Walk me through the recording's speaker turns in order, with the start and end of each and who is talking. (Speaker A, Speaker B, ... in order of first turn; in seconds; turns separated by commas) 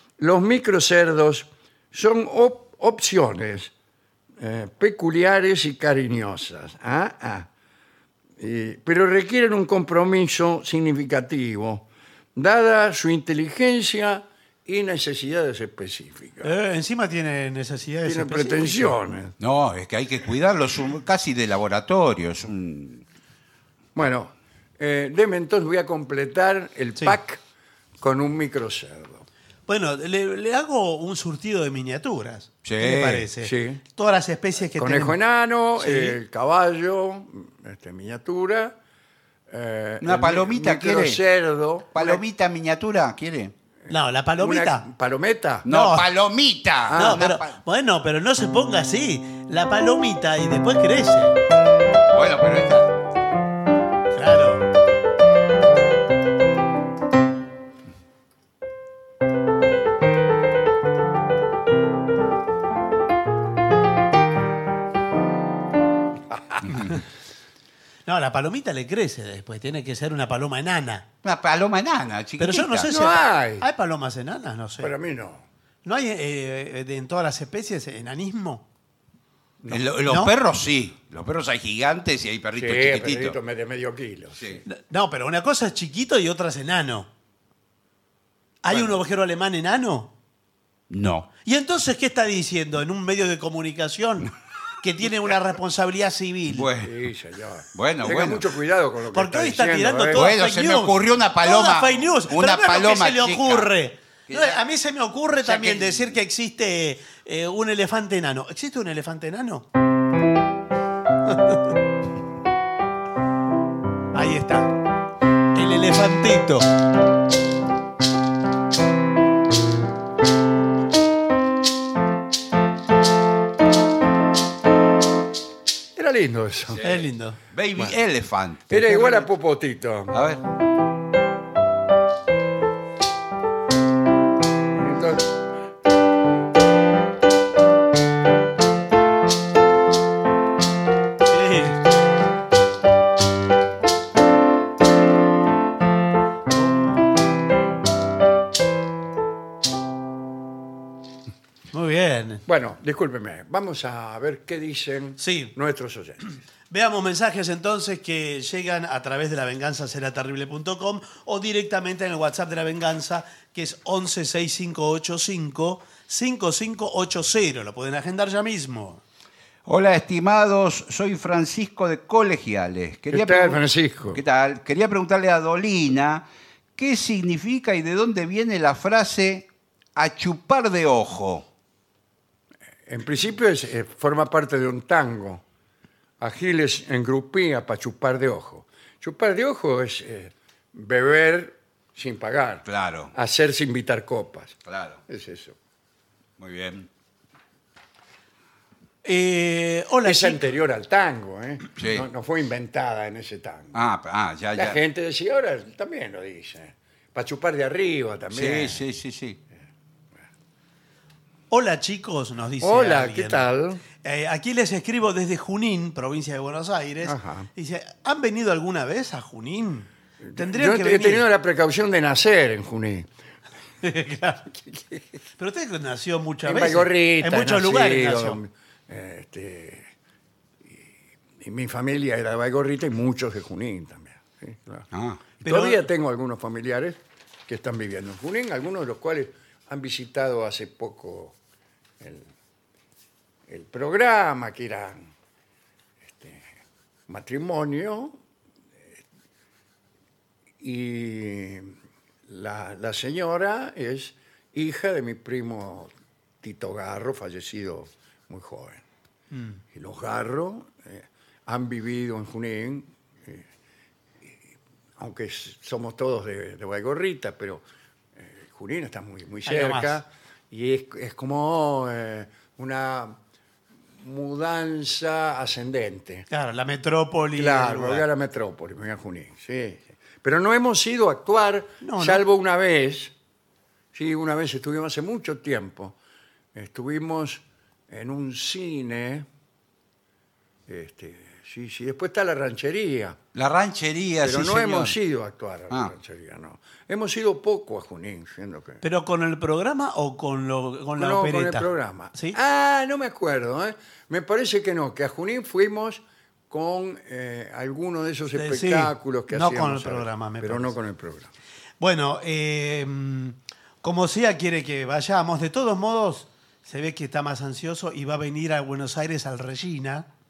Speaker A: 0.2-3.7, Speaker A: 4.4-7.5, Speaker A: 8.4-16.5, Speaker B: 16.4-18.9, Speaker A: 18.1-19.3, Speaker C: 19.4-23.0, Speaker A: 23.9-27.4, Speaker A: 28.0-29.2, Speaker B: 29.7-35.2, Speaker C: 32.6-33.3, Speaker A: 33.4-33.8, Speaker A: 34.7-38.8, Speaker B: 35.8-36.2, Speaker A: 39.5-42.2, Speaker C: 40.0-41.2, Speaker C: 41.9-43.5, Speaker A: 43.9-45.6, Speaker B: 43.9-44.9, Speaker B: 45.6-46.0, Speaker C: 45.6-47.6, Speaker A: 46.9-47.2, Speaker B: 46.9-51.3, Speaker C: 52.1-52.9, Speaker B: 54.1-54.6, Speaker A: 66.3-66.6, Speaker B: 68.0-71.0, Speaker C: 71.2-72.9, Speaker B: 72.4-74.9, Speaker A: 72.9-73.7, Speaker A: 74.8-75.5, Speaker B: 75.8-78.6, Speaker C: 79.7-83.4, Speaker B: 80.1-80.3, Speaker A: 82.5-84.6, Speaker C: 84.4-84.6, Speaker B: 84.7-87.1, Speaker B: 88.6-90.1, Speaker C: 90.9-91.3, Speaker B: 91.4-96.7, Speaker C: 96.5-96.9, Speaker A: 96.8-100.3, Speaker C: 97.7-98.5, Speaker B: 99.1-109.7, Speaker C: 100.1-103.7, Speaker C: 104.3-104.6, Speaker C: 105.4-106.1, Speaker B: 111.2-111.7, Speaker B: 114.1-114.7, Speaker B: 115.5-116.7, Speaker A: 126.0-126.9, Speaker C: 126.8-129.2, Speaker B: 126.8-127.4, Speaker A: 128.7-130.1, Speaker C: 130.1-130.4, Speaker A: 134.7-135.3, Speaker B: 141.3-141.8, Speaker B: 151.7-152.4, Speaker A: 152.4-156.3, Speaker B: 155.2-155.5, Speaker B: 156.7-169.0, Speaker C: 169.7-176.2, Speaker A: 173.1-174.2, Speaker C: 176.8-181.4, Speaker A: 182.9-185.4, Speaker A: 186.2-194.6, Speaker C: 192.7-193.1, Speaker C: 194.7-195.0, Speaker A: 195.1-195.6, Speaker C: 196.4-196.9, Speaker B: 199.0-200.4, Speaker A: 200.0-203.8, Speaker C: 201.8-202.1, Speaker C: 203.7-204.8, Speaker A: 204.6-208.8, Speaker C: 208.3-209.4, Speaker B: 211.5-213.5, Speaker A: 212.6-213.8, Speaker B: 214.0-221.2, Speaker A: 217.0-217.5, Speaker A: 220.2-223.1, Speaker B: 223.8-224.5, Speaker B: 225.4-228.4, Speaker A: 226.4-229.9, Speaker A: 230.6-234.9, Speaker C: 234.9-235.2, Speaker A: 235.4-241.4, Speaker B: 235.4-235.8, Speaker A: 242.0-242.3, Speaker A: 243.5-245.1, Speaker A: 246.0-246.5, Speaker A: 247.1-248.2, Speaker A: 250.6-251.7, Speaker A: 252.3-255.9, Speaker A: 256.4-258.8, Speaker B: 259.3-259.6, Speaker A: 259.7-263.4, Speaker A: 265.0-267.6, Speaker A: 268.1-273.2, Speaker B: 269.4-270.0, Speaker A: 274.0-276.3, Speaker B: 276.3-278.1, Speaker A: 277.4-283.1, Speaker B: 281.8-282.2, Speaker A: 283.9-286.0, Speaker A: 286.5-289.3, Speaker A: 290.7-293.2, Speaker C: 293.3-294.9, Speaker A: 294.2-298.8, Speaker B: 298.8-302.4, Speaker A: 301.0-311.3, Speaker B: 308.3-310.7, Speaker B: 311.8-320.1